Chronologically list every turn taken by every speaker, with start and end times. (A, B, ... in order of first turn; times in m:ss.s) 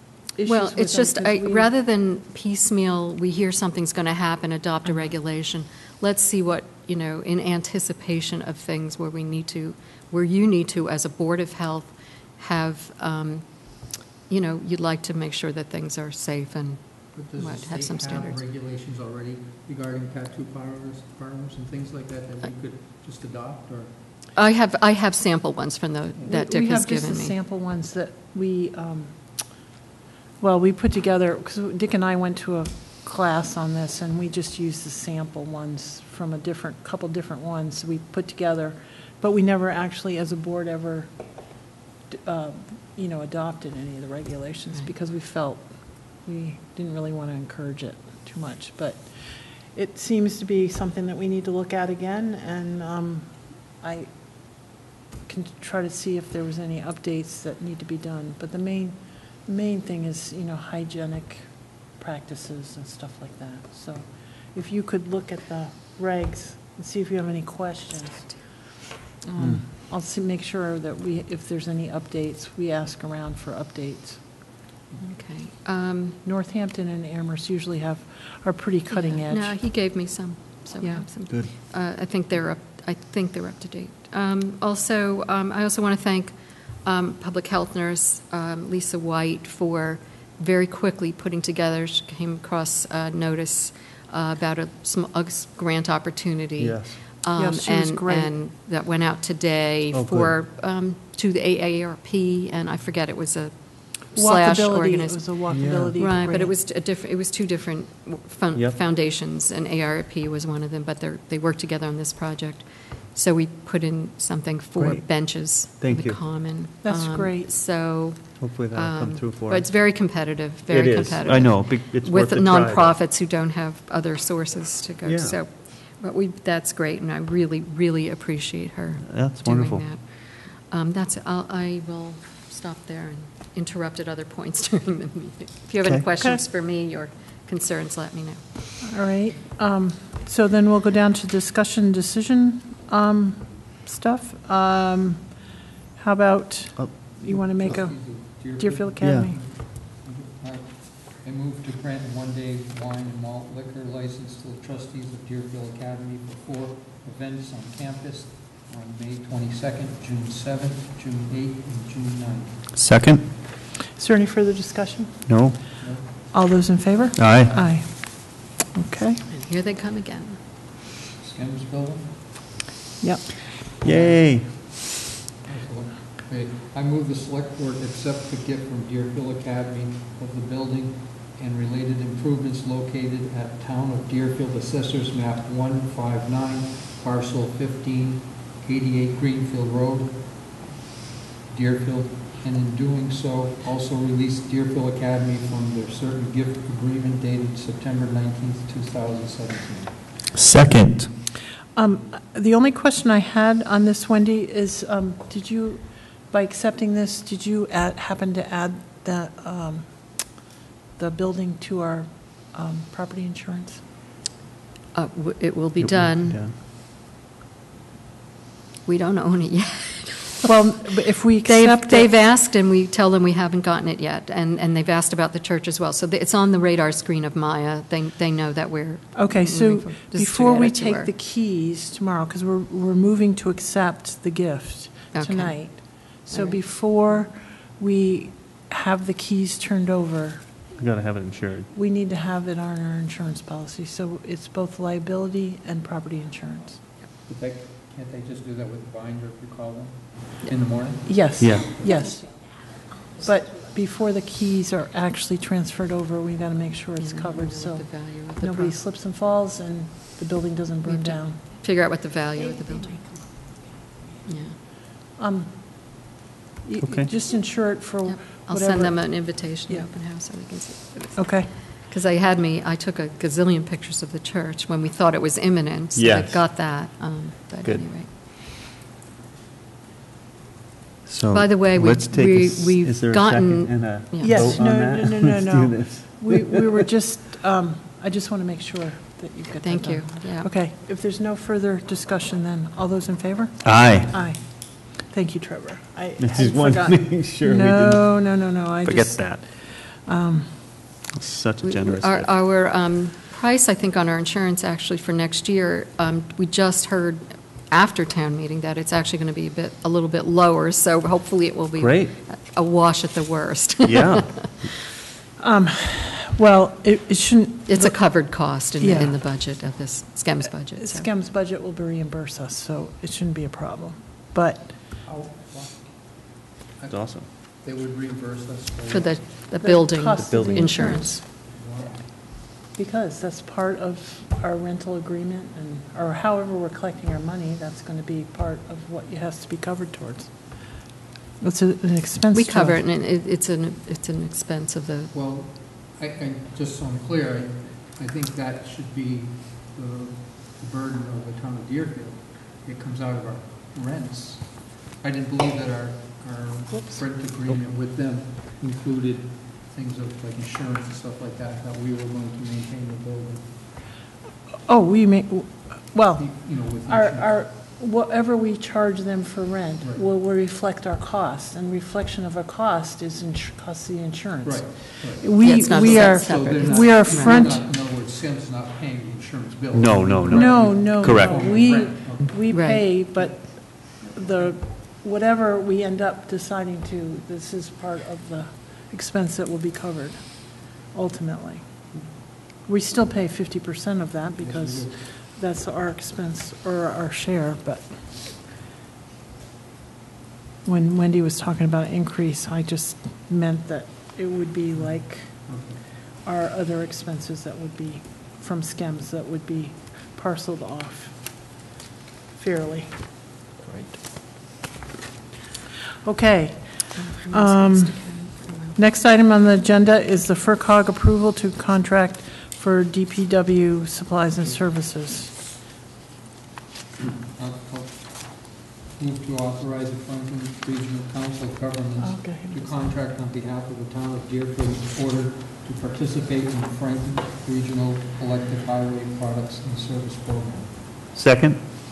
0:00.4-0:01.7 A
0:00.4-0:18.4 B
0:17.1-0:23.9 C
0:24.3-0:27.3 B
0:26.2-0:29.6 A
0:30.4-0:41.6 A
0:42.1-0:54.7 A
0:55.3-1:14.5 A
1:09.4-1:09.6 D
1:15.0-1:16.2 B
1:16.2-1:19.6 A
1:18.9-1:45.4 B
1:20.8-1:21.0 A
1:36.6-1:37.0 D
1:37.3-1:38.4 A
1:39.9-1:40.3 D
1:44.1-1:46.5 A
1:45.5-1:46.0 D
1:46.0-2:18.9 B
1:54.8-1:56.2 D
1:56.8-1:57.5 A
1:58.4-1:59.7 D
2:00.7-2:02.9 D
2:05.0-2:05.4 D
2:09.0-2:09.8 D
2:18.8-2:29.4 A
2:26.8-2:27.2 D
2:27.4-2:42.6 C
2:29.0-2:29.3 D
2:42.8-2:43.3 D
2:43.9-2:49.2 A
2:45.3-2:45.6 D
2:45.8-2:46.3 C
2:47.2-2:47.6 D
2:49.3-2:50.4 B
2:51.2-2:52.3 C
2:53.0-2:53.3 A
2:53.8-2:54.7 D
2:53.8-2:54.4 C
2:55.4-3:10.6 C
3:11.5-3:20.2 C
3:20.3-3:21.1 D
3:21.7-3:30.4 A
3:31.0-3:33.8 A
3:34.9-3:36.4 B
3:35.8-3:36.6 D
3:38.8-3:40.5 B
3:40.4-3:42.1 A
3:41.4-3:51.1 B
3:49.1-4:00.4 A
3:55.1-3:56.6 B
4:00.8-4:01.7 D
4:01.7-4:06.8 A
4:07.2-4:11.3 C
4:11.0-4:12.6 A
4:11.4-4:11.7 D
4:13.2-4:21.4 A
4:17.0-4:18.8 B
4:20.8-4:23.2 B
4:24.3-4:24.6 B
4:25.1-4:26.1 A
4:26.6-4:29.9 A
4:26.8-4:27.1 D
4:28.0-4:38.1 B
4:31.2-4:31.5 A
4:36.0-4:36.5 D
4:41.0-4:46.4 D
4:41.3-4:44.6 B
4:44.2-5:00.8 A
4:49.6-4:50.5 B
4:53.6-4:54.1 D
4:56.2-4:58.2 D
4:58.8-4:59.4 D
5:01.1-5:02.3 D
5:01.6-5:14.6 B
5:11.8-5:12.1 D
5:13.8-5:14.6 D
5:15.4-5:19.2 A
5:17.7-5:21.1 B
5:20.8-5:24.8 A
5:25.0-5:29.5 C
5:26.9-5:27.3 D
5:28.9-5:31.2 B
5:29.6-5:40.8 A
5:30.2-5:31.0 D
5:31.3-5:32.1 C
5:41.4-5:42.8 A
5:42.3-5:45.1 B
5:45.1-6:03.8 C
5:56.7-5:57.0 A
6:04.7-6:17.6 A
6:06.2-6:07.4 C
6:09.8-6:10.0 C
6:14.4-6:22.5 C
6:15.4-6:17.4 B
6:19.7-6:21.4 D
6:20.3-6:38.2 A
6:22.5-6:22.9 B
6:23.2-6:24.2 C
6:34.4-6:35.2 C
6:40.6-6:51.2 A
6:44.8-6:46.0 C
6:52.4-6:52.9 A
6:53.7-6:53.9 D
6:56.0-7:05.3 A
6:57.0-6:58.8 B
7:07.0-7:20.8 C
7:12.0-7:12.9 A
7:21.1-7:21.6 D